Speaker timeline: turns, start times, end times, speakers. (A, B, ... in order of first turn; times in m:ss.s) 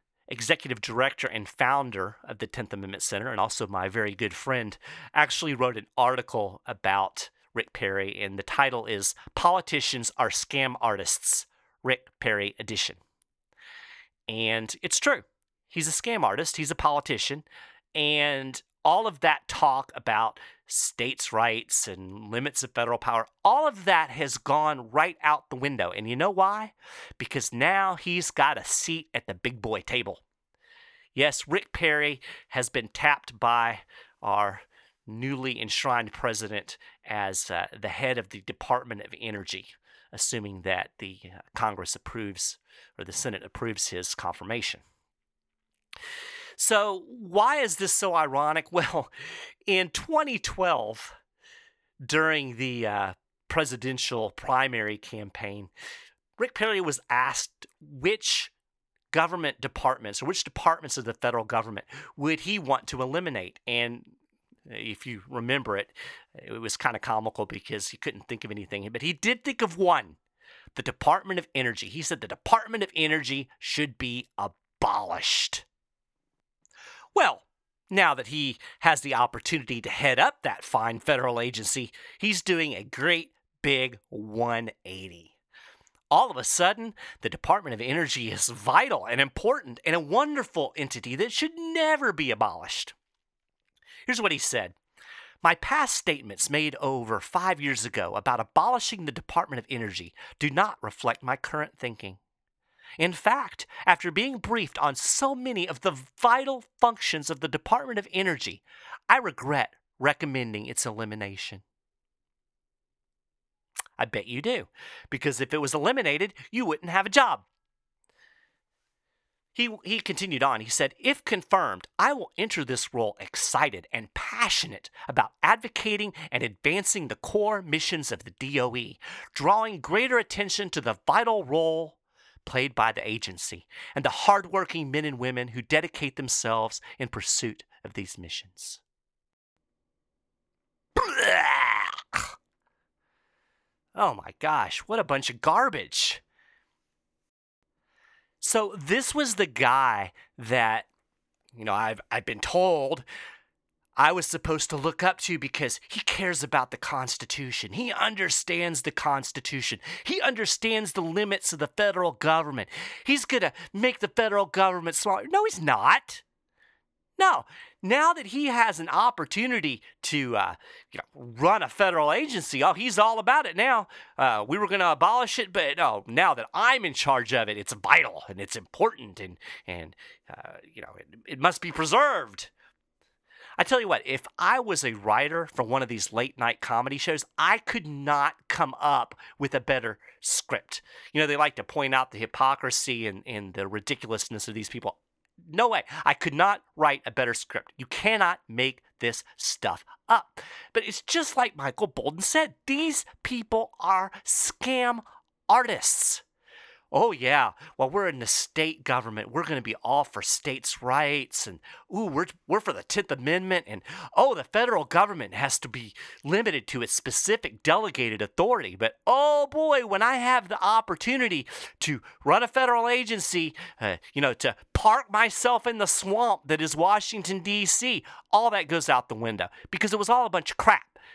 0:00.3-0:13.0 A
0:14.3-0:30.2 A
0:31.1-0:44.8 A
0:46.6-0:49.1 A
0:49.7-0:51.2 A
0:52.0-0:55.7 A
0:56.4-0:58.5 A
0:59.1-1:04.1 A
1:04.7-1:10.2 A
1:10.7-1:15.6 A
1:17.1-1:25.3 A
1:26.1-1:32.9 A
1:34.0-1:34.8 A
1:35.4-1:42.2 A
1:43.0-1:51.6 A
1:54.0-1:57.5 A
1:59.5-2:18.8 A
2:21.0-2:22.3 A
2:24.0-2:26.2 A
2:28.4-2:30.9 A
2:31.5-2:33.0 A
2:34.0-2:46.2 A
2:47.2-3:02.5 A
3:03.6-3:26.2 A
3:26.9-3:51.0 A